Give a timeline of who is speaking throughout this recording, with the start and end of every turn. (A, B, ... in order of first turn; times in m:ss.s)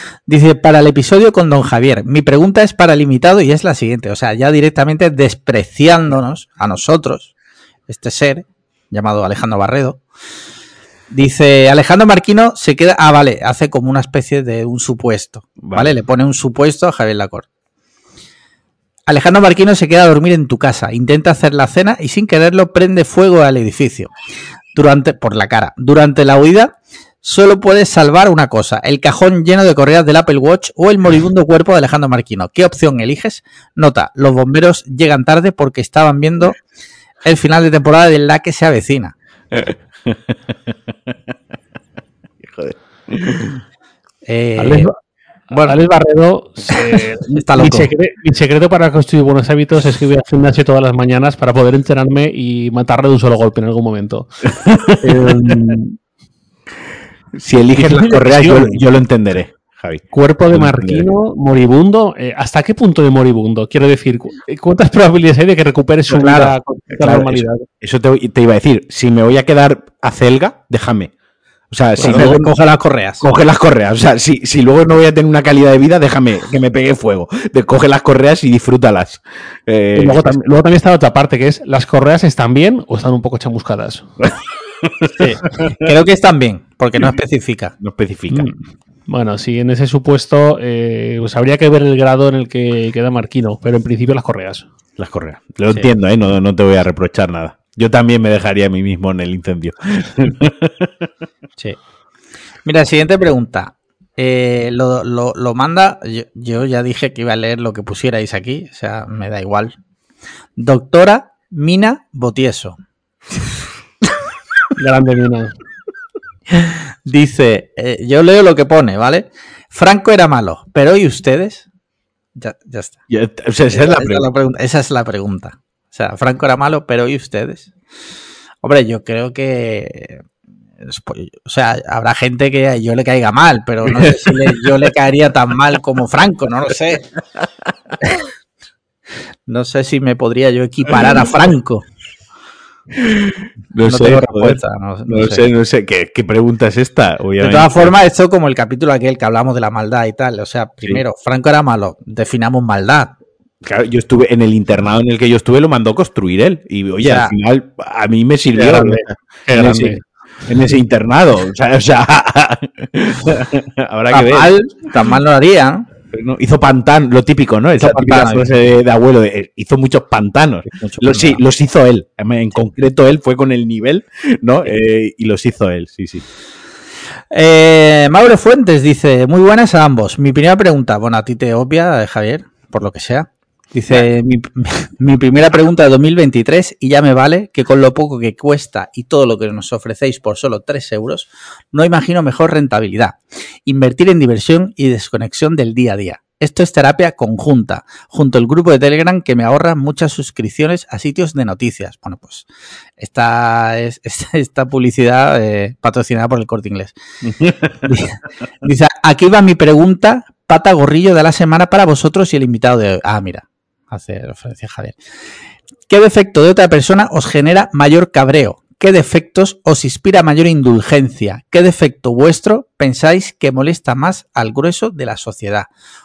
0:00.3-0:07.3 A
0:07.9-0:10.0 A
0:11.1-0:17.5 A
0:15.6-0:15.9 B
0:19.1-0:24.1 A
0:24.7-0:36.6 A
0:37.2-0:39.1 A
0:39.5-0:40.3 B
0:42.4-0:43.6 B
0:44.2-0:44.9 A
0:44.6-0:44.9 C
0:45.5-0:45.8 A
0:45.6-0:54.4 C
0:47.3-0:47.9 A
0:54.6-0:55.0 B
0:55.0-0:56.0 C
0:57.4-1:01.1 B
0:57.8-0:58.8 C
1:00.1-1:07.7 C
1:06.1-1:06.5 A
1:07.0-1:11.1 B
1:11.7-1:12.5 B
1:12.0-1:12.4 C
1:12.0-1:13.2 A
1:13.2-1:20.4 B
1:20.0-1:24.1 C
1:24.8-1:25.8 B
1:25.2-1:27.7 A
1:27.8-1:28.4 B
1:29.1-1:34.7 C
1:35.0-1:40.9 B
1:42.6-1:49.8 A
1:50.6-1:52.8 A
1:54.8-1:55.6 C
1:56.5-2:01.7 A
2:02.4-2:03.0 A
2:03.1-2:04.3 B
2:03.7-2:07.7 A
2:08.6-2:10.2 A
2:10.8-2:17.0 A
2:13.9-2:14.3 B
2:19.5-2:21.8 A
2:23.0-2:27.9 B
2:23.8-2:25.5 A
2:27.4-2:33.1 A
2:33.6-2:39.9 B
2:37.0-2:37.3 A
2:38.5-2:40.0 C
2:40.5-2:44.5 B
2:44.1-2:45.9 A
2:46.1-2:56.2 B
2:47.7-2:48.5 A
2:50.7-2:51.4 A
2:57.3-3:22.4 A
3:23.0-3:27.0 A
3:27.2-3:27.7 B
3:27.8-3:35.0 A
3:35.9-3:45.7 A